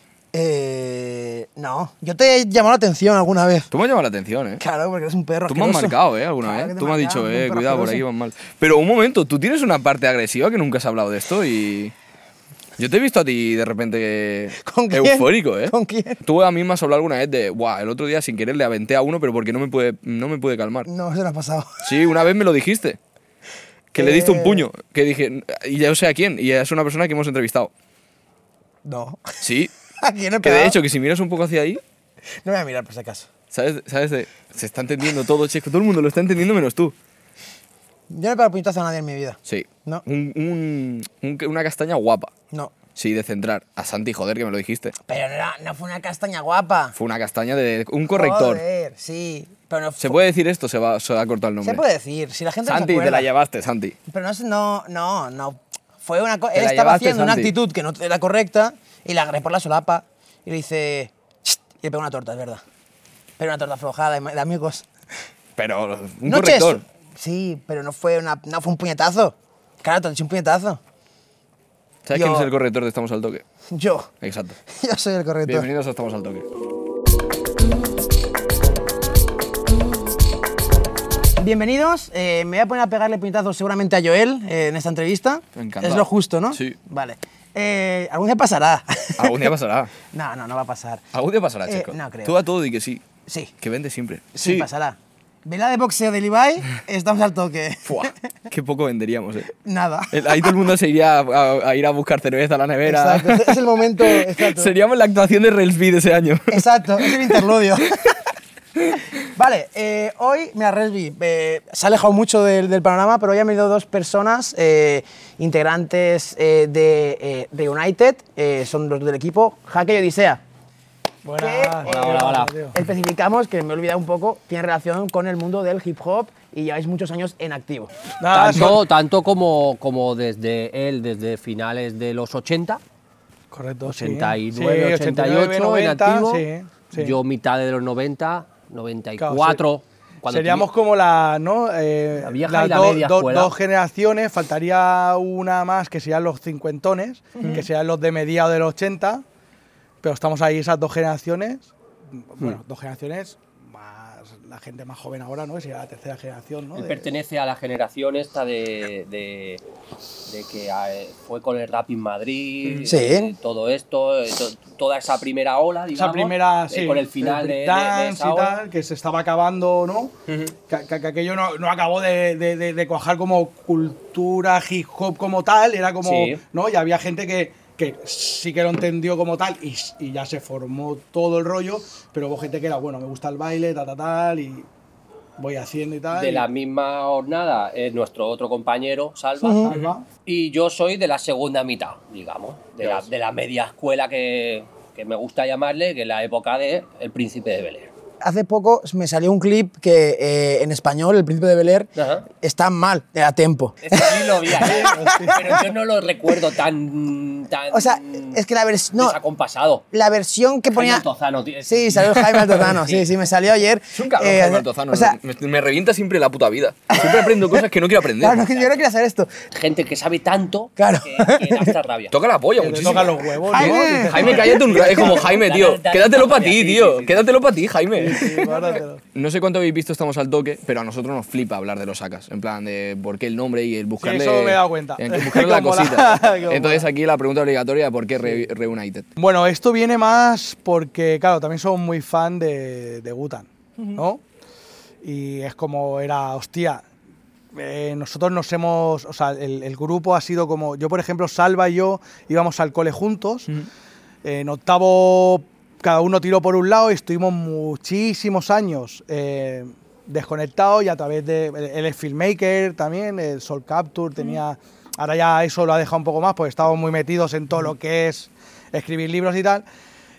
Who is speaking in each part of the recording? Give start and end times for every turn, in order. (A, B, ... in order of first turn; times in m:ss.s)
0:00.3-0:03.7 A
0:03.7-0:04.6 B
0:04.6-0:08.0 A
0:05.5-0:11.9 B
0:12.8-0:20.9 B
0:14.6-0:16.2 A
0:20.8-0:21.9 A
0:21.8-0:23.0 B
0:23.9-0:27.7 B
0:24.0-0:24.6 A
0:28.8-0:29.4 A
0:29.4-0:29.7 B
0:30.0-0:30.8 A
0:30.4-0:31.8 B
0:32.4-0:33.3 A
0:33.5-0:37.0 B
0:38.1-0:40.0 A
0:39.5-0:42.3 B
0:43.0-0:45.0 B
0:45.1-0:47.0 A
0:47.0-0:48.6 B
0:48.1-0:50.2 A
0:50.0-0:51.8 B
0:51.6-0:53.3 A
0:52.7-0:54.0 B
0:54.1-1:02.6 A
0:56.5-0:57.5 B
1:03.4-1:04.9 A
1:05.6-1:06.8 B
1:06.2-1:10.8 A
1:12.1-1:13.4 B
1:12.1-1:12.5 A
1:13.7-1:14.1 A
1:14.2-1:14.6 B
1:14.7-1:15.7 A
1:15.4-1:16.5 B
1:21.4-1:29.5 A
1:25.6-1:26.8 B
1:29.2-1:29.9 B
1:30.1-1:31.0 A
1:31.1-1:33.0 B
1:31.7-1:32.4 A
1:33.3-1:33.5 A
1:33.6-1:34.7 B
1:34.4-1:38.2 A
1:37.9-1:39.5 B
1:39.5-1:40.5 A
1:40.1-1:47.4 B
1:42.8-1:44.7 A
1:46.5-1:48.2 A
1:48.9-2:00.4 A
2:01.2-2:02.8 C
2:01.4-2:02.1 A
2:01.8-2:02.5 D
2:02.7-2:07.9 A
2:08.2-2:08.8 C
2:08.3-2:12.8 D
2:13.5-2:17.2 C
2:13.8-2:20.7 D
2:19.2-2:19.6 C
2:20.3-2:29.2 C
2:22.2-2:23.5 D
2:27.4-2:27.6 A
2:30.0-2:37.1 C
2:36.7-2:39.6 D
2:40.3-2:48.6 D
2:42.8-2:43.4 A
2:46.0-2:50.2 C
2:50.7-3:04.7 C
2:56.0-2:56.4 D
3:05.4-3:06.5 C
3:06.1-3:17.9 D
3:09.4-3:09.7 A
3:09.6-3:10.0 C
3:18.2-3:21.9 A
3:22.0-3:22.3 D
3:22.4-3:25.6 A
3:23.8-3:28.4 D
3:24.7-3:25.4 C
3:27.7-3:29.2 A
3:29.0-3:29.8 D
3:29.9-3:31.0 A
3:30.7-3:33.1 D
3:31.6-3:35.2 A
3:33.9-3:38.5 B
3:36.9-3:37.6 A
3:38.2-3:39.3 A
3:39.5-3:42.1 D
3:40.8-3:41.7 A
3:42.1-3:48.4 B
3:42.6-3:45.2 C
3:43.4-3:44.5 A
3:44.1-3:47.3 D
3:48.0-3:49.0 C
3:48.4-3:48.8 A
3:49.1-3:59.1 B
3:54.0-3:56.9 C
3:59.2-4:04.2 C
4:05.0-4:06.8 C
4:07.5-4:13.5 C
4:14.2-4:29.6 C